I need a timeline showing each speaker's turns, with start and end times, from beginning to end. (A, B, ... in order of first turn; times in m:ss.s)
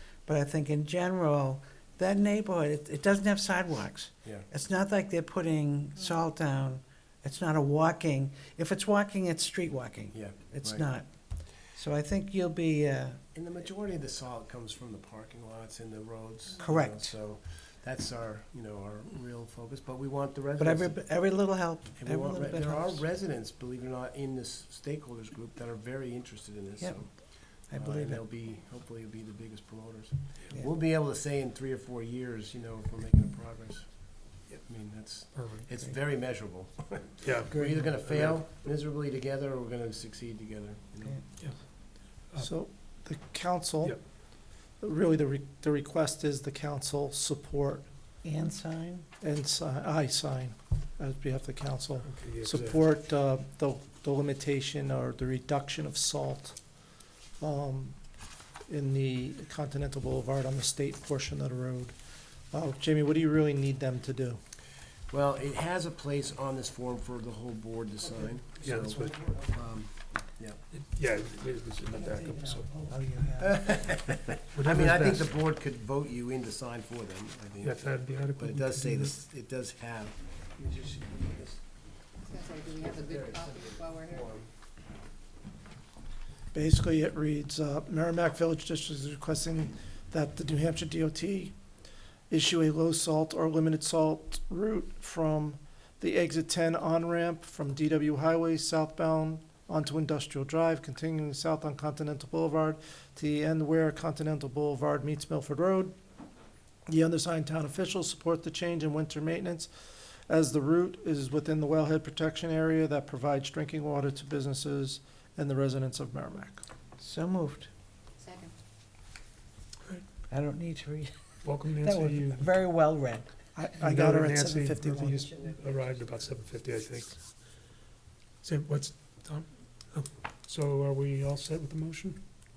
0:00.3-0:13.2 A
0:10.1-0:11.0 B
0:13.3-0:21.2 B
0:16.6-0:17.2 A
0:20.6-0:23.0 A
0:22.0-0:41.3 B
0:26.8-0:28.2 A
0:35.3-0:35.7 C
0:37.2-0:38.4 C
0:37.5-0:37.9 A
0:41.4-0:42.5 C
0:42.4-0:47.9 D
0:48.2-0:49.1 A
0:49.2-0:56.6 D
0:52.0-0:52.8 C
0:57.4-0:58.0 D
0:58.7-1:02.0 D
1:02.5-1:04.4 D
1:05.1-1:10.6 B
1:08.6-1:09.3 C
1:10.7-1:12.7 C
1:12.0-1:13.7 A
1:13.4-1:21.6 B
1:14.5-1:15.3 C
1:17.6-1:19.2 C
1:22.2-1:24.3 E
1:22.6-1:24.5 B
1:26.5-1:31.5 D
1:32.3-1:46.0 D
1:46.9-1:56.6 D
1:57.0-1:57.7 A
1:58.2-1:58.6 E
2:00.3-2:01.1 A
2:01.4-2:02.5 C
2:01.8-2:03.3 A
2:03.6-2:05.3 D
2:03.8-2:07.4 C
2:08.4-2:12.2 C